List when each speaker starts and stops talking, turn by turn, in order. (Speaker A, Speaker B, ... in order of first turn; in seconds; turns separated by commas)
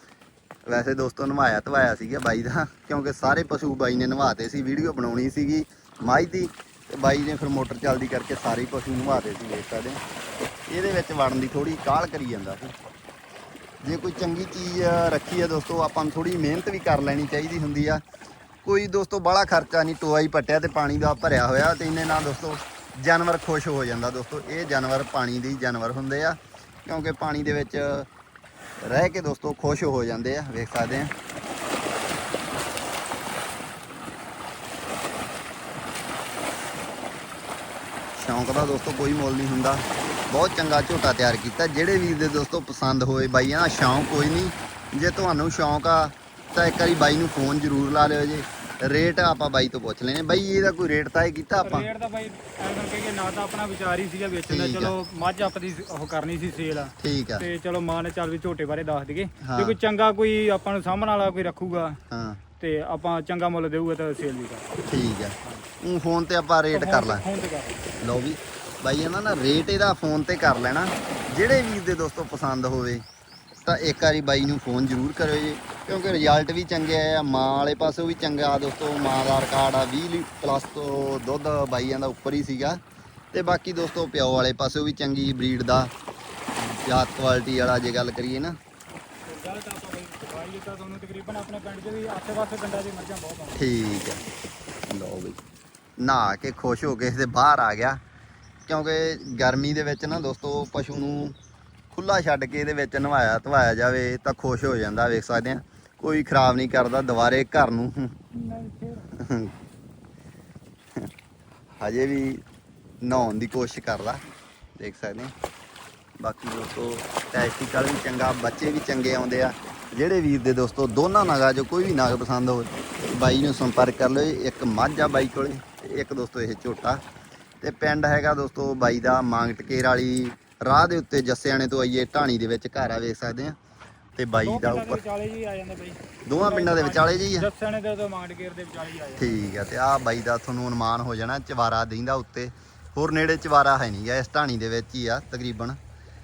Speaker A: 0.7-10.0, Speaker A: 10.7-12.7, Speaker A: 13.8-18.0, Speaker A: 18.6-28.1, Speaker A: 28.8-31.1, Speaker A: 38.1-51.9, Speaker B: 51.6-62.0, Speaker A: 54.5-55.0, Speaker A: 57.0-57.5, Speaker A: 59.4-59.8, Speaker A: 62.1-62.4, Speaker B: 62.6-64.8, Speaker A: 64.9-67.2, Speaker B: 65.4-65.7, Speaker B: 66.7-67.9, Speaker A: 68.0-73.0, Speaker A: 73.7-82.8, Speaker A: 83.3-85.9, Speaker A: 86.6-88.6, Speaker B: 89.3-93.7, Speaker A: 93.6-94.2, Speaker A: 94.9-95.4, Speaker A: 96.0-98.0, Speaker A: 98.7-101.3, Speaker A: 101.9-108.2, Speaker B: 108.3-109.1, Speaker A: 109.2-109.5, Speaker A: 111.8-112.4, Speaker A: 113.0-114.2, Speaker A: 114.8-115.3, Speaker A: 116.2-127.0, Speaker A: 127.6-133.6, Speaker A: 134.2-135.0, Speaker B: 134.3-139.5, Speaker A: 136.2-137.5, Speaker A: 139.2-145.8